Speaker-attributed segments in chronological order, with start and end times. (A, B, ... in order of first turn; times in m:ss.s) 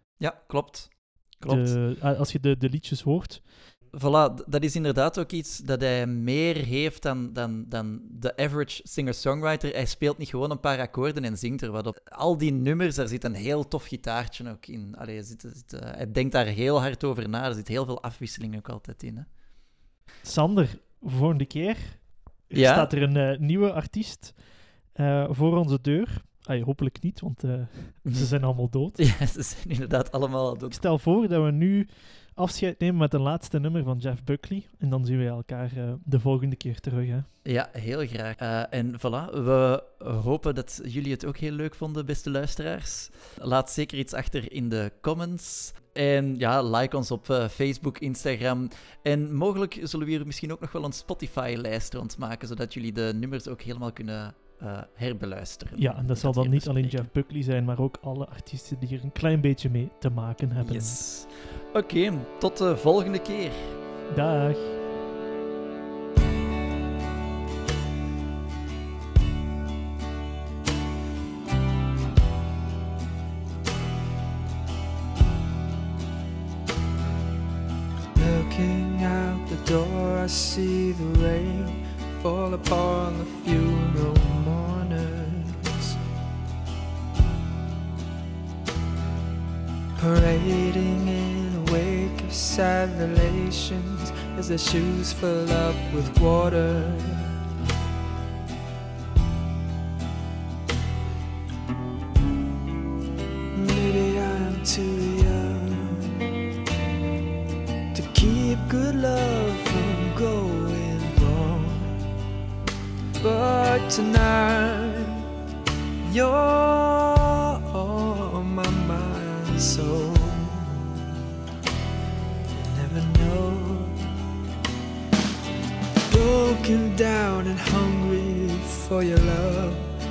0:00.2-0:01.8 A
0:01.4-0:03.6 B
0:03.9-0:19.3 A
0:20.2-0:29.0 B
0:22.5-0:22.9 A
0:28.0-0:30.8 A
0:30.7-0:37.3 B
0:37.4-0:57.1 A
0:55.8-1:01.0 B
1:00.6-1:03.7 A
1:04.1-1:04.8 B
1:18.2-1:26.0 C
1:30.0-1:37.3 C
1:43.5-1:46.2 C
1:47.9-1:52.0 C
1:53.2-1:55.2 C
1:56.0-2:01.1 C
2:02.5-2:04.0 C
2:06.1-2:09.9 C